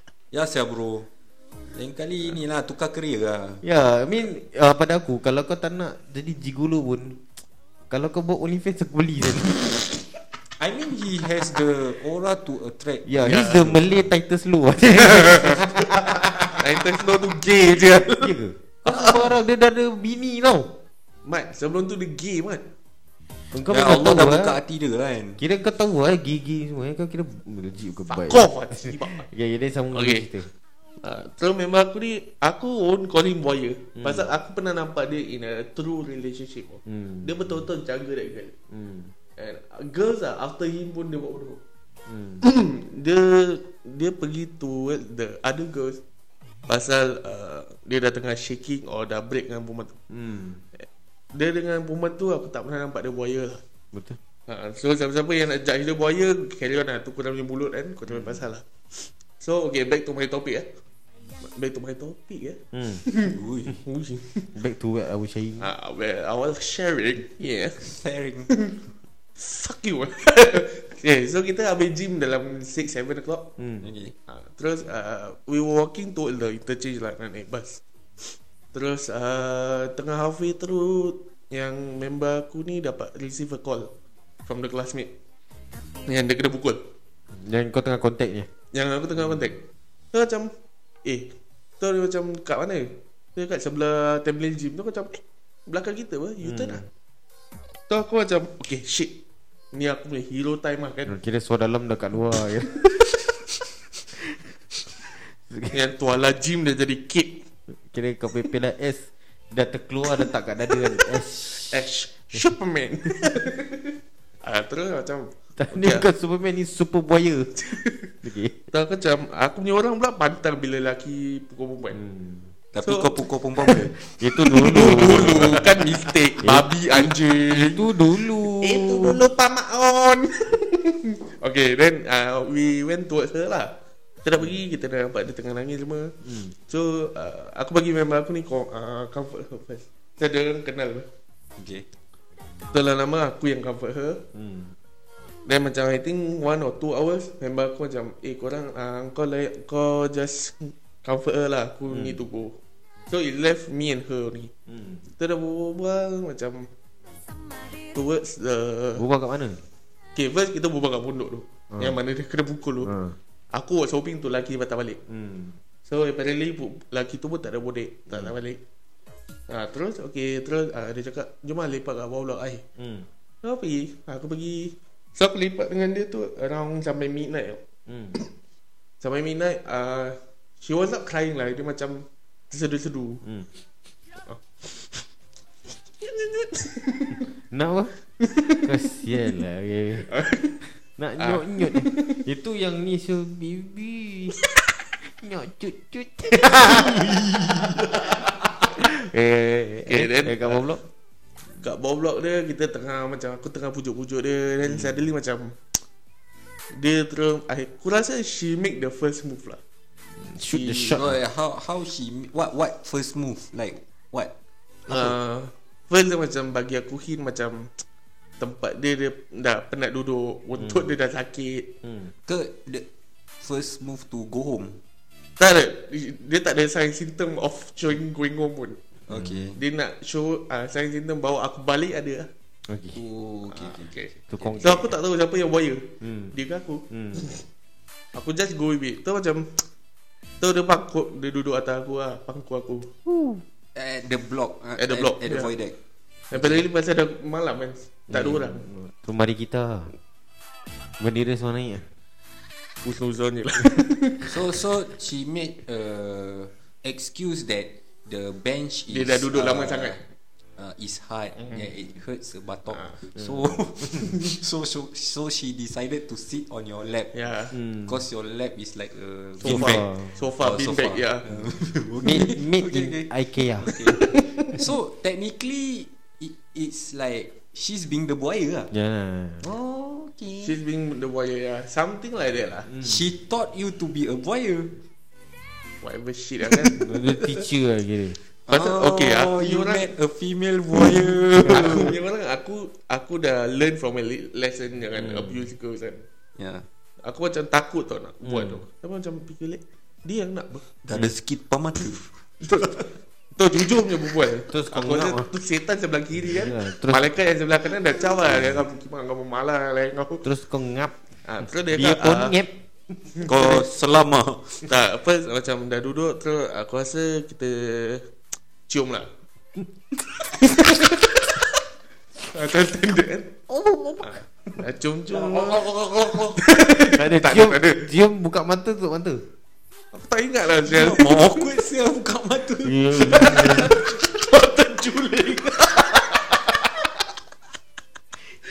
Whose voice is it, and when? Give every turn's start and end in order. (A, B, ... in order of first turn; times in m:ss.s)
0:00.3-0:01.1 A
0:01.7-0:03.6 A
0:03.6-0:07.2 B
0:07.9-0:09.8 B
0:10.6-0:14.0 A
0:13.1-0:17.3 B
0:13.2-0:13.6 C
0:15.0-0:18.3 C
0:18.0-0:20.8 B
0:18.9-0:19.2 C
0:21.2-0:22.6 C
0:23.5-0:24.6 B
0:23.7-0:25.4 A
0:25.4-0:30.5 B
0:28.1-0:29.3 C
0:29.9-0:30.3 C
0:31.0-0:38.5 C
0:34.0-0:34.3 B
0:36.9-0:37.6 B
0:38.7-0:39.1 B
0:39.4-0:41.6 C
0:42.1-0:42.4 B
0:42.4-0:46.0 C
0:46.7-0:50.0 C
0:50.1-0:50.6 B
0:51.3-0:53.6 C
0:53.9-0:54.2 B
0:54.5-0:58.6 C
0:58.1-0:58.4 B
0:59.4-1:00.7 C
1:01.5-1:04.5 C
1:02.7-1:03.0 B
1:03.3-1:03.8 A
1:04.5-1:05.7 B
1:05.6-1:07.9 C
1:07.8-1:08.6 A
1:09.4-1:13.5 C
1:13.6-1:13.9 B
1:13.8-1:14.1 A
1:14.3-1:17.8 C
1:18.7-1:23.9 C
1:24.4-1:25.1 C
1:26.0-1:26.8 C
1:27.3-1:28.5 B
1:28.7-1:29.6 C
1:29.2-1:29.5 B
1:30.1-1:30.5 C
1:31.0-1:36.8 C
1:36.4-1:36.9 B
1:37.9-1:39.1 C
1:39.7-1:41.2 C
1:41.0-1:43.1 B
1:45.2-1:45.8 B
1:45.7-1:47.4 C
1:47.8-1:51.8 B
1:51.7-1:53.9 C
1:54.4-1:56.0 C
1:55.6-1:57.6 B
1:57.6-1:58.1 C
1:58.2-1:58.6 B
1:58.7-2:02.0 C
2:01.9-2:02.5 B
2:02.7-2:04.0 A
2:02.8-2:03.1 C
2:04.0-2:05.8 B
2:04.4-2:07.9 C
2:04.8-2:05.4 A
2:06.4-2:09.2 B
2:08.6-2:13.7 C
2:14.2-2:21.0 C
2:16.2-2:16.5 B
2:21.6-2:21.8 A
2:22.7-2:24.2 C
2:24.3-2:24.7 B
2:25.4-2:32.6 C
2:31.9-2:32.2 B
2:33.1-2:34.5 C
2:34.7-2:35.0 B
2:35.2-2:36.6 C
2:37.9-2:39.0 C
2:39.0-2:39.6 B
2:40.2-2:42.9 C
2:41.7-2:42.0 B
2:42.8-2:43.2 B
2:43.5-2:45.0 C
2:45.1-2:45.6 B
2:45.9-2:48.6 C
2:48.1-2:48.3 B
2:49.5-2:52.6 C
2:52.8-2:53.1 B
2:53.4-2:57.6 C
2:57.9-2:58.2 B
2:59.0-3:03.2 C
3:03.2-3:03.5 B
3:04.3-3:05.0 C
3:06.0-3:07.2 C
3:07.5-3:07.9 B
3:08.2-3:08.7 C
3:08.5-3:10.1 B
3:10.1-3:10.6 C
3:11.0-3:14.4 B
3:11.2-3:12.2 C
3:15.0-3:20.8 B
3:16.7-3:17.9 A
3:19.8-3:20.6 C
3:21.6-3:25.6 C
3:24.6-3:25.0 B
3:26.7-3:29.6 C
3:30.2-3:31.2 B
3:30.5-3:31.0 C
3:30.9-3:34.3 A
3:34.9-3:35.2 A
3:34.9-3:37.7 C
3:38.4-3:41.7 C
3:40.6-3:40.9 B
3:41.8-3:42.1 B
3:42.3-3:42.8 A
3:43.4-3:44.8 A
3:45.4-3:48.8 C
3:49.1-3:49.6 A
3:49.1-3:49.5 B
3:49.6-3:52.3 C
3:52.7-3:53.0 B
3:52.9-3:54.8 A
3:53.5-3:54.1 C
3:54.3-3:54.9 B
3:54.6-3:57.4 C
3:56.0-3:56.3 B
3:56.9-3:57.2 B
3:58.1-3:59.4 C
4:00.4-4:02.9 C
4:03.0-4:03.4 B
4:03.7-4:05.7 A
4:04.8-4:05.5 C
4:06.3-4:08.6 C
4:06.3-4:06.6 A
4:08.1-4:09.9 B
4:11.0-4:11.8 B
4:12.8-4:14.4 C
4:14.2-4:20.0 A
4:18.9-4:20.0 C
4:20.6-4:27.3 A
4:22.7-4:23.0 C
4:23.2-4:23.4 B
4:27.1-4:27.5 C
4:27.5-4:28.0 B
4:27.8-4:38.7 A
4:29.4-4:30.2 B
4:29.4-4:31.3 C
4:32.0-4:33.7 B
4:33.7-4:34.5 C
4:38.7-4:39.4 B
4:39.4-4:40.6 A
4:40.4-4:42.7 C
4:42.7-4:43.0 B
4:42.8-4:44.8 A
4:45.8-4:46.8 C
4:46.7-4:48.2 B
4:48.5-4:51.9 A
4:48.5-4:49.9 C
4:51.4-4:51.9 B
4:51.5-4:56.0 C
4:55.0-4:55.5 B
4:56.4-4:56.6 A
4:57.0-5:00.6 C
4:58.2-4:58.6 B
5:00.8-5:02.8 A
5:02.4-5:10.2 C
5:04.5-5:05.3 B
5:06.2-5:07.1 B
5:10.2-5:11.0 B
5:11.2-5:12.4 C
5:11.7-5:12.5 B
5:13.2-5:13.6 C
5:13.2-5:13.6 B
5:13.2-5:14.7 A
5:14.6-5:18.0 C
5:18.7-5:19.1 C
5:20.3-5:21.3 C
5:22.3-5:23.4 C
5:23.5-5:24.2 B
5:24.0-5:27.8 C
5:25.2-5:26.4 A
5:26.9-5:29.2 B
5:29.9-5:31.5 C
5:30.6-5:33.8 A
5:32.6-5:33.8 B
5:33.0-5:36.7 C